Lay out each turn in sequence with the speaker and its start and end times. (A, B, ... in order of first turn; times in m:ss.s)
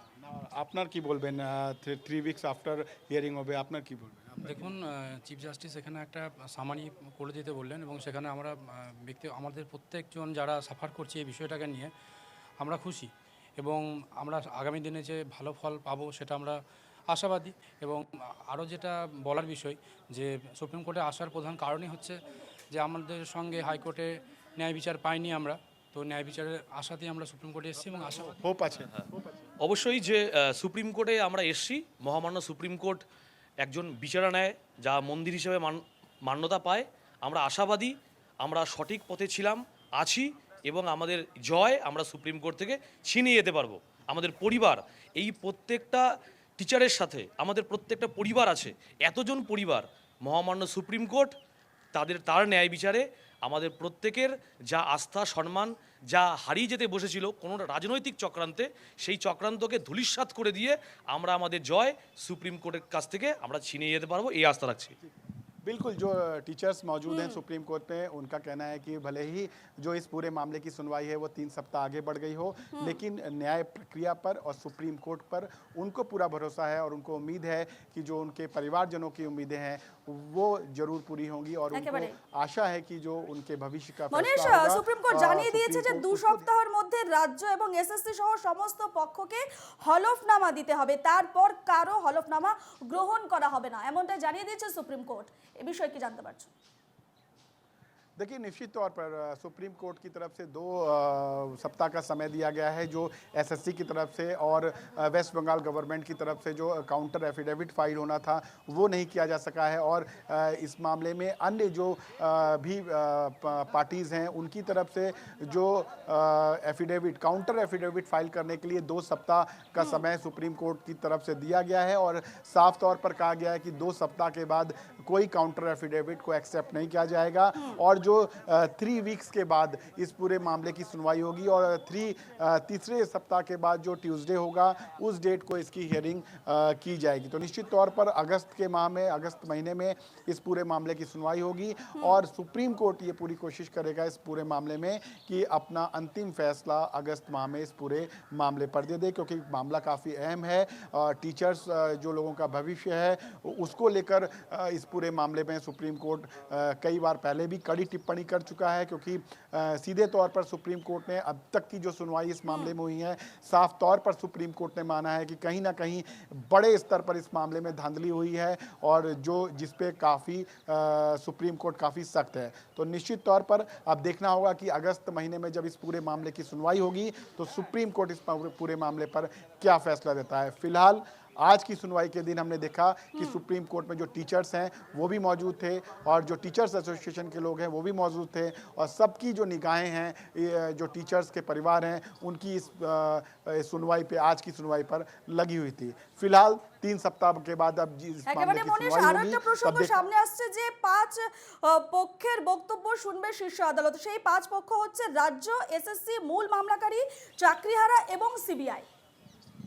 0:00.2-0:04.7 A
0:04.4-0:11.9 B
0:12.6-0:22.2 B
0:22.7-0:28.4 B
0:28.4-0:28.9 A
0:29.6-0:33.0 C
0:33.6-0:51.4 C
0:51.9-1:05.0 C
1:05.6-1:26.5 A
1:07.1-1:07.4 D
1:21.7-1:22.1 D
1:24.1-1:36.5 D
1:38.2-3:20.0 A
2:42.5-2:42.7 D
3:03.2-3:03.4 D
3:18.3-3:28.8 D